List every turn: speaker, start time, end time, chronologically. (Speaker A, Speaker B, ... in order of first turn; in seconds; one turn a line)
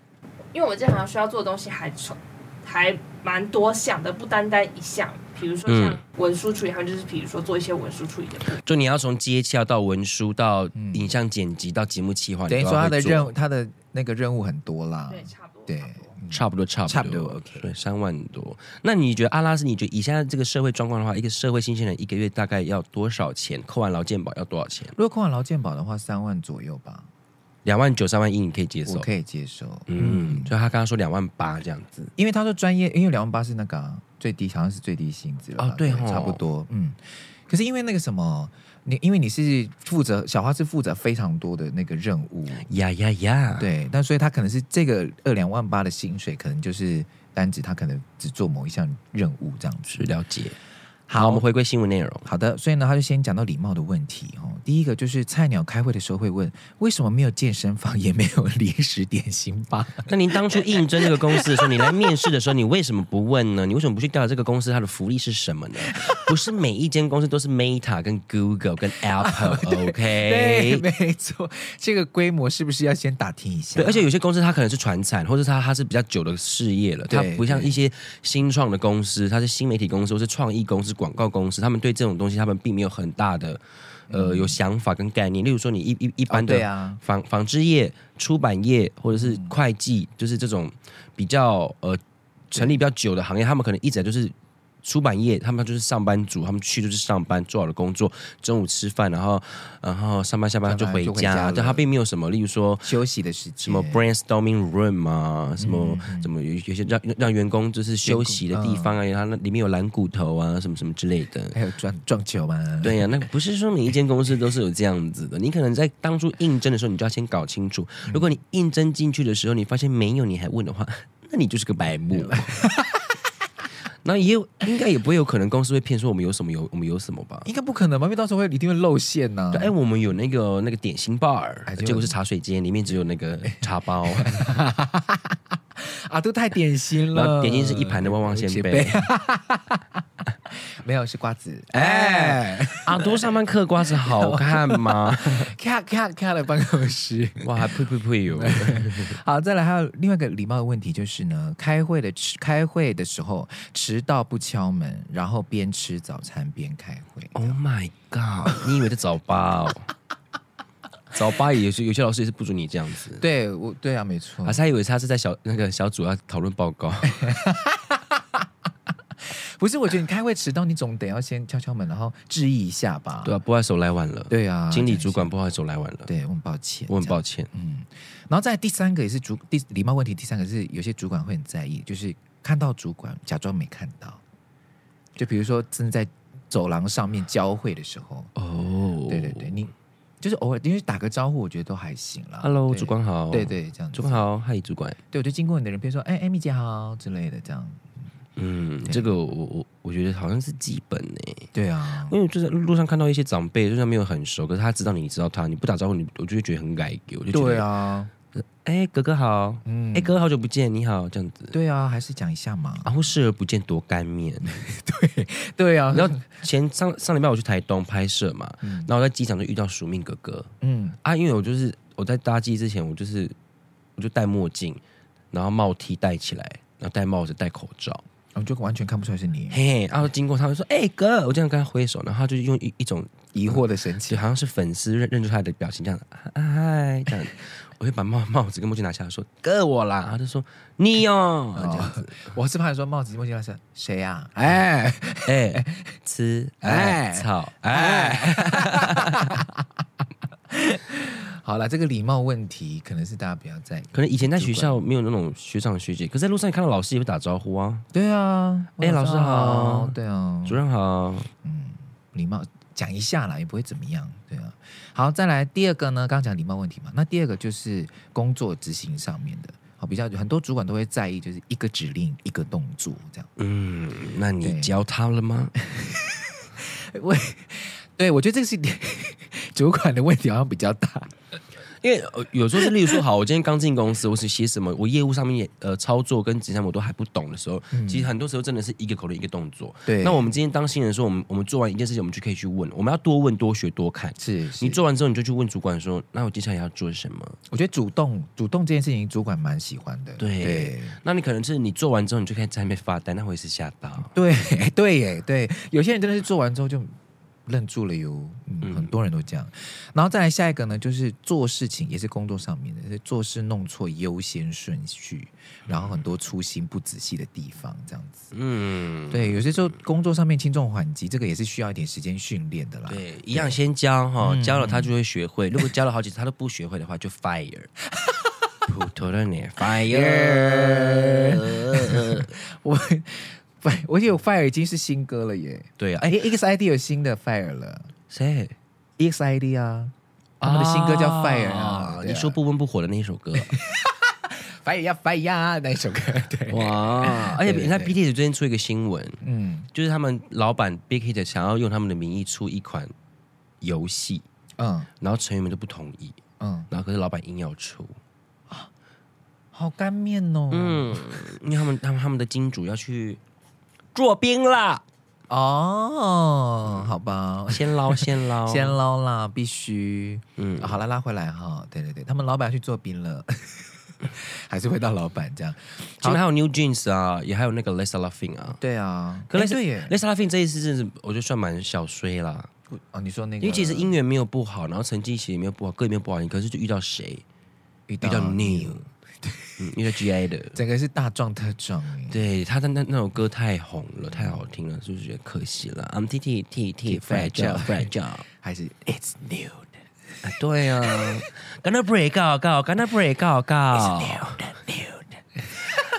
Speaker A: 0.5-8.6
Speaker B: 5.7-6.0
Speaker B: 8.5-13.3
Speaker C: 10.7-11.2
Speaker C: 12.5-17.7
Speaker A: 15.1-16.1
Speaker B: 16.3-24.9
Speaker C: 24.9-27.1
Speaker B: 27.6-29.1
Speaker C: 28.9-30.5
Speaker B: 29.9-32.1
Speaker C: 32.1-42.7
Speaker B: 35.6-36.4
Speaker B: 42.6-43.7
Speaker C: 43.6-50.1
Speaker B: 49.9-50.6
Speaker C: 51.1-51.4
Speaker B: 51.1-52.3
Speaker C: 52.2-62.2
Speaker B: 60.1-70.8
Speaker C: 65.9-66.3
Speaker C: 69.2-74.1
Speaker B: 73.8-92.0
Speaker C: 77.1-77.8
Speaker C: 84.1-84.6
Speaker C: 86.3-87.0
Speaker C: 89.1-89.5
Speaker C: 92.5-92.8
Speaker B: 92.5-102.9
Speaker C: 100.7-101.8
Speaker C: 102.8-104.0
Speaker B: 103.6-111.5
Speaker C: 105.6-106.3
Speaker C: 108.0-109.0
Speaker C: 111.5-113.1
Speaker B: 112.8-122.6
Speaker C: 122.1-123.2
Speaker B: 124.0-127.5
Speaker C: 127.5-129.7
Speaker B: 129.5-134.5
Speaker C: 131.7-132.1
Speaker C: 134.2-143.3
Speaker B: 137.1-139.1
Speaker B: 141.7-145.5
Speaker C: 144.0-157.6
Speaker B: 147.4-149.2
Speaker B: 157.3-159.9
Speaker C: 158.4-158.7
Speaker B: 161.1-163.2
Speaker C: 163.2-164.6
Speaker B: 164.4-167.3
Speaker C: 167.1-168.5
Speaker C: 169.2-173.3
Speaker B: 173.2-176.1
Speaker C: 174.3-175.3
Speaker C: 176.1-184.2
Speaker B: 176.9-177.5
Speaker C: 185.2-188.3
Speaker B: 188.3-189.7
Speaker C: 189.1-194.2
Speaker B: 192.4-195.0
Speaker C: 195.1-197.9
Speaker B: 198.4-201.5
Speaker C: 198.8-199.1
Speaker C: 201.5-202.1
Speaker B: 202.1-207.7
Speaker C: 207.3-208.1
Speaker B: 208.3-211.5
Speaker C: 209.6-210.2
Speaker C: 211.5-212.9
Speaker B: 212.8-214.5
Speaker C: 214.4-216.2
Speaker B: 215.9-220.5
Speaker C: 218.6-218.9
Speaker C: 220.6-221.0
Speaker B: 221.0-223.3
Speaker B: 224.0-224.8
Speaker B: 225.3-228.0
Speaker C: 228.3-229.6
Speaker B: 229.5-242.2
Speaker C: 233.3-234.2
Speaker C: 241.5-245.9
Speaker B: 245.2-249.4
Speaker C: 246.6-249.8
Speaker C: 250.5-254.8
Speaker B: 253.9-257.9
Speaker C: 257.9-260.6
Speaker B: 258.8-261.3
Speaker C: 261.4-273.3
Speaker B: 273.4-275.5
Speaker C: 274.4-274.7
Speaker C: 275.6-281.1
Speaker B: 281.8-297.4
Speaker C: 287.7-288.1
Speaker C: 289.9-290.3
Speaker C: 294.2-294.8
Speaker C: 297.5-301.0
Speaker B: 300.2-304.1
Speaker C: 304.1-306.9
Speaker C: 307.4-318.3
Speaker B: 308.6-308.9
Speaker B: 315.7-316.0
Speaker B: 318.3-319.8
Speaker C: 319.1-323.6
Speaker B: 322.9-327.7
Speaker C: 324.2-324.9
Speaker C: 328.0-328.5
Speaker B: 328.7-332.3
Speaker C: 329.6-337.9
Speaker B: 335.8-336.1
Speaker B: 338.1-338.5
Speaker C: 339.0-342.4
Speaker B: 340.4-343.6
Speaker C: 343.3-348.0
Speaker B: 346.5-349.2
Speaker C: 349.2-349.7
Speaker B: 349.7-352.9
Speaker B: 353.6-354.2
Speaker C: 354.6-354.9
Speaker B: 355.0-356.2
Speaker C: 356.4-356.7
Speaker B: 356.7-358.0
Speaker C: 359.5-361.3
Speaker B: 360.5-363.2
Speaker B: 363.9-364.8
Speaker C: 365.3-376.2
Speaker B: 367.5-368.8
Speaker B: 370.4-370.8
Speaker B: 376.0-378.6
Speaker C: 378.6-379.9
Speaker B: 379.3-382.5
Speaker C: 382.7-383.9
Speaker B: 383.4-387.2
Speaker C: 387.9-389.6
Speaker B: 388.0-388.8
Speaker B: 389.6-390.6
Speaker C: 390.5-392.2
Speaker B: 392.1-398.2
Speaker C: 396.9-399.8
Speaker B: 400.2-404.5
Speaker C: 400.9-401.2
Speaker C: 403.8-405.8